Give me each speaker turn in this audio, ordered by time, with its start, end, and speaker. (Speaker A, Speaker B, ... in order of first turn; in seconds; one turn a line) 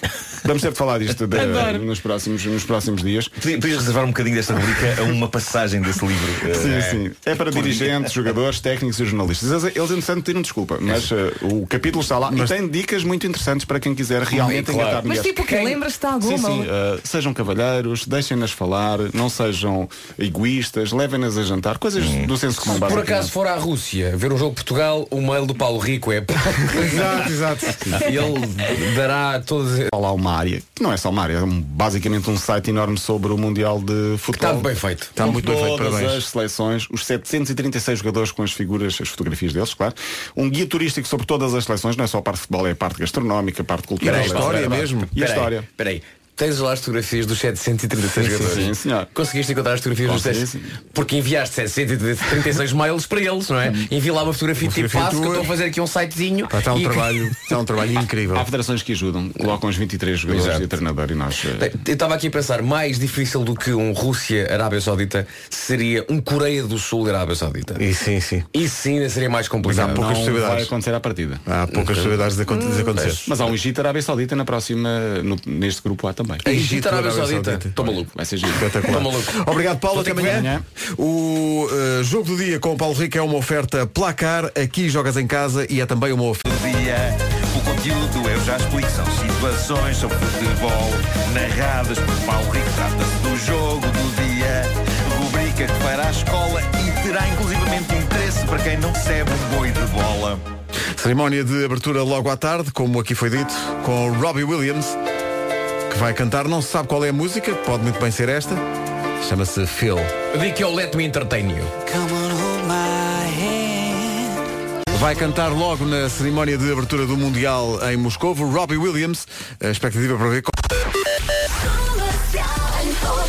Speaker A: 0.4-3.4
Speaker B: 1.4-1.7
Speaker C: 3.4-7.0
Speaker A: 6.4-15.5
Speaker C: 7.5-8.1
Speaker D: 14.3-15.8
Speaker B: 15.0-16.7
Speaker A: 16.2-23.3
Speaker C: 22.0-22.3
Speaker D: 22.6-27.3
Speaker E: 26.7-28.0
Speaker D: 27.9-29.9
Speaker A: 29.9-45.7
Speaker D: 34.4-35.1
Speaker E: 35.1-36.2
Speaker E: 44.0-45.1
Speaker D: 44.0-57.4
Speaker A: 48.1-49.1
Speaker A: 50.0-50.7
Speaker E: 54.6-55.5
Speaker E: 56.5-58.5
Speaker A: 58.3-61.7
Speaker D: 60.3-60.7
Speaker D: 61.6-67.8
Speaker E: 67.8-68.5
Speaker D: 68.5-70.0
Speaker E: 69.6-70.7
Speaker A: 69.8-71.4
Speaker E: 71.5-73.3
Speaker D: 71.7-72.3
Speaker D: 72.9-73.3
Speaker A: 73.2-76.4
Speaker E: 76.4-77.9
Speaker D: 76.4-79.4
Speaker A: 77.9-78.7
Speaker E: 78.5-86.4
Speaker A: 79.9-80.6
Speaker D: 80.0-80.4
Speaker C: 86.4-100.4
Speaker E: 101.0-105.0
Speaker E: 105.9-108.6
Speaker E: 109.2-110.1
Speaker D: 110.3-111.7
Speaker E: 114.9-120.6